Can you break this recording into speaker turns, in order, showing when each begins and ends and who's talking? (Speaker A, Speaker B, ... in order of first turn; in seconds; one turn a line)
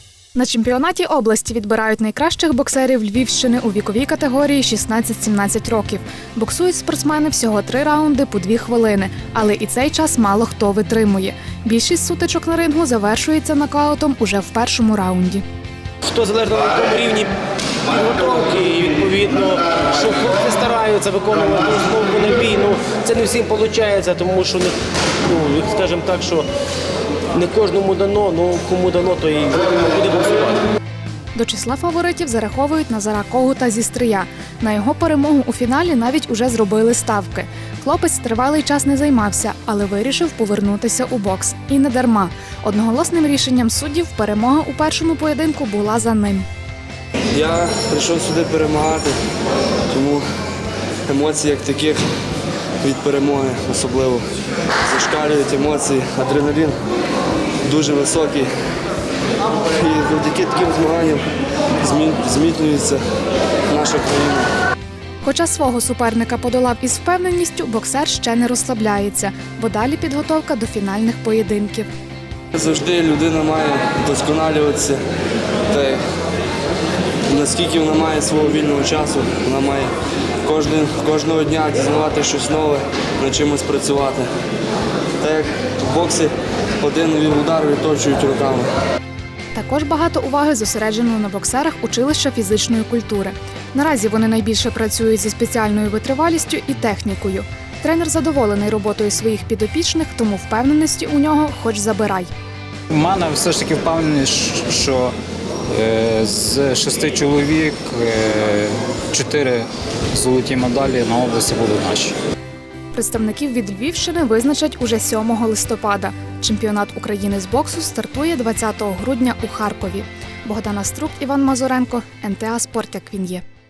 Speaker A: 0.3-15.4
Speaker B: 16.0-26.5
Speaker B: 27.3-30.6
Speaker A: 31.3-46.5
Speaker C: 47.3-49.2
Speaker C: 49.9-50.2
Speaker C: 51.1-52.0
Speaker C: 52.8-54.3
Speaker C: 54.8-56.8
Speaker C: 57.6-58.5
Speaker C: 59.6-61.2
Speaker C: 61.8-63.0
Speaker C: 63.7-64.5
Speaker A: 65.2-71.9
Speaker C: 72.5-75.0
Speaker C: 75.7-76.0
Speaker C: 77.3-79.9
Speaker C: 80.4-84.3
Speaker C: 85.2-88.7
Speaker A: 89.5-102.3
Speaker D: 102.9-105.1
Speaker D: 105.7-112.1
Speaker A: 112.9-123.4